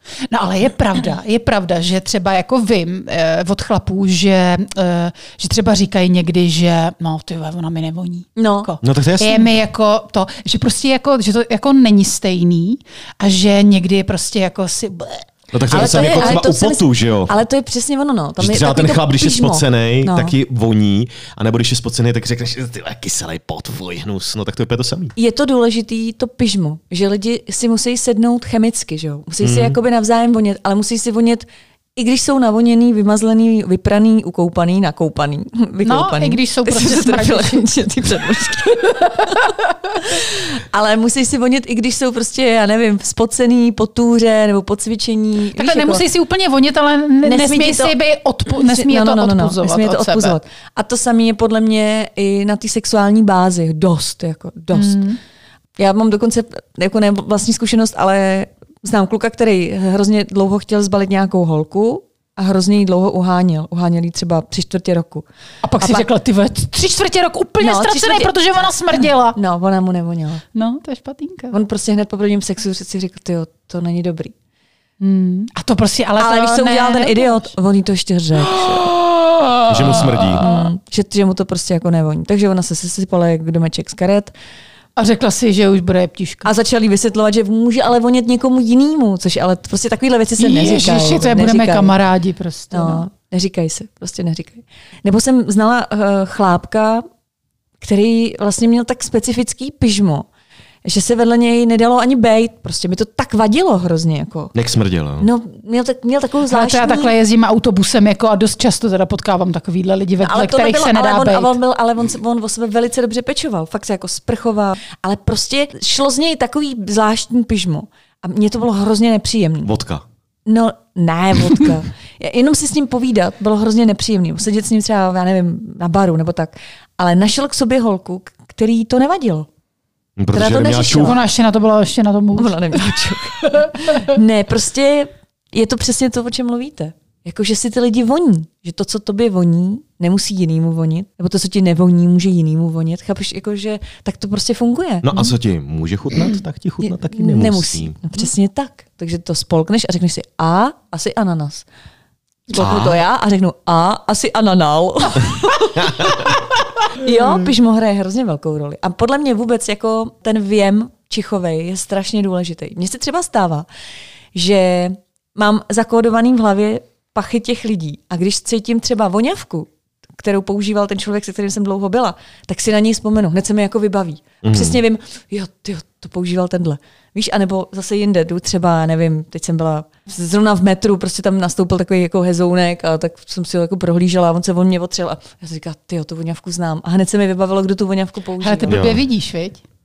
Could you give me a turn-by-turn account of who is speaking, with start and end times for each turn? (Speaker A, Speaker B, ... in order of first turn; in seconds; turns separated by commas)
Speaker A: 0.3-16.4, Speaker B: 8.4-8.7, Speaker C: 8.8-9.5, Speaker C: 15.5-17.3, Speaker B: 15.7-20.4, Speaker C: 18.4-25.1, Speaker B: 25.2-46.1, Speaker C: 29.4-29.8, Speaker A: 35.8-37.7, Speaker A: 38.9-39.6, Speaker A: 45.5-50.4, Speaker B: 47.2-48.0, Speaker B: 48.5-55.2, Speaker A: 54.7-55.2, Speaker B: 55.8-65.2, Speaker A: 65.6-69.4, Speaker B: 65.8-66.1, Speaker B: 67.6-68.3, Speaker B: 69.3-70.5, Speaker A: 70.5-71.6, Speaker B: 71.5-74.3, Speaker A: 75.0-77.5, Speaker B: 76.2-79.0, Speaker A: 78.5-80.7, Speaker C: 79.7-80.5, Speaker B: 80.1-84.3, Speaker A: 85.0-86.5, Speaker B: 86.5-91.9, Speaker A: 90.4-93.1, Speaker B: 92.7-97.0, Speaker B: 97.8-100.3, Speaker B: 100.8-104.5, Speaker C: 104.5-105.3, Speaker B: 105.2-107.1, Speaker A: 106.5-111.6, Speaker B: 110.2-119.7, Speaker C: 119.6-120.0, Speaker B: 120.5-129.5, Speaker C: 130.2-131.2, Speaker B: 130.3-131.2, Speaker A: 131.0-132.9, Speaker B: 132.4-145.3, Speaker A: 133.5-134.2, Speaker C: 145.0-148.0, Speaker B: 146.8-151.7, Speaker B: 152.5-156.4, Speaker C: 152.6-153.0, Speaker C: 155.8-156.2, Speaker B: 156.9-163.7, Speaker B: 164.3-169.7, Speaker B: 170.2-188.8, Speaker C: 174.4-174.8, Speaker A: 188.4-189.6, Speaker C: 188.7-189.0